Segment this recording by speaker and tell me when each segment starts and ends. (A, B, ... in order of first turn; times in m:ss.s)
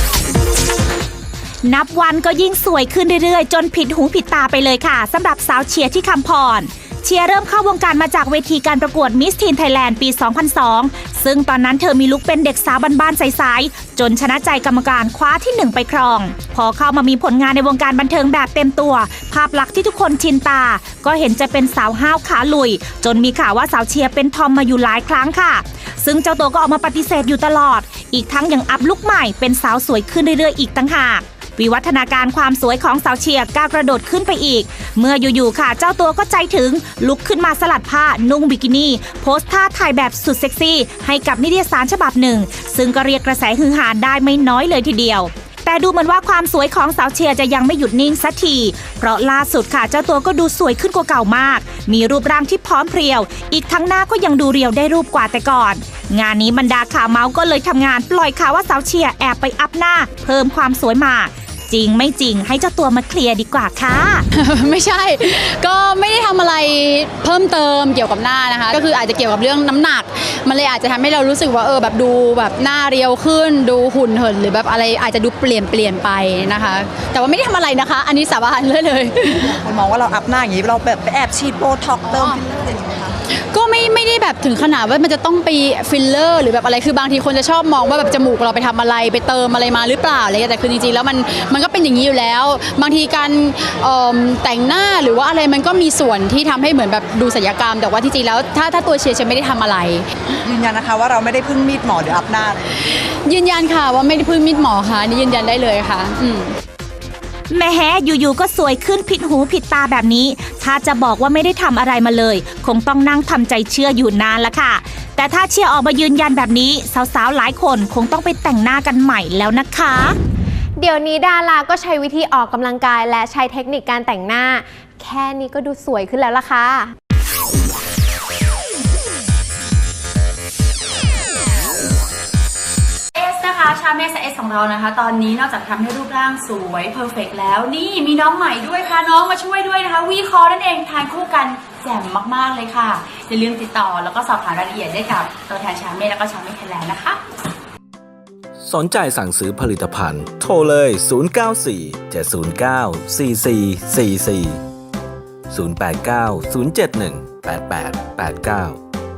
0:01.7-1:04.2 A
1:04.3-1:19.5 B
1:19.4-1:23.2 C
1:22.2-1:22.4 B
1:23.5-1:40.0 B
1:40.4-1:42.7 C
1:43.3-1:46.6 B
1:47.5-2:00.2 A
2:00.8-2:06.9 D
2:13.2-2:27.2 E
2:28.6-2:34.6 F
2:35.5-2:38.8 F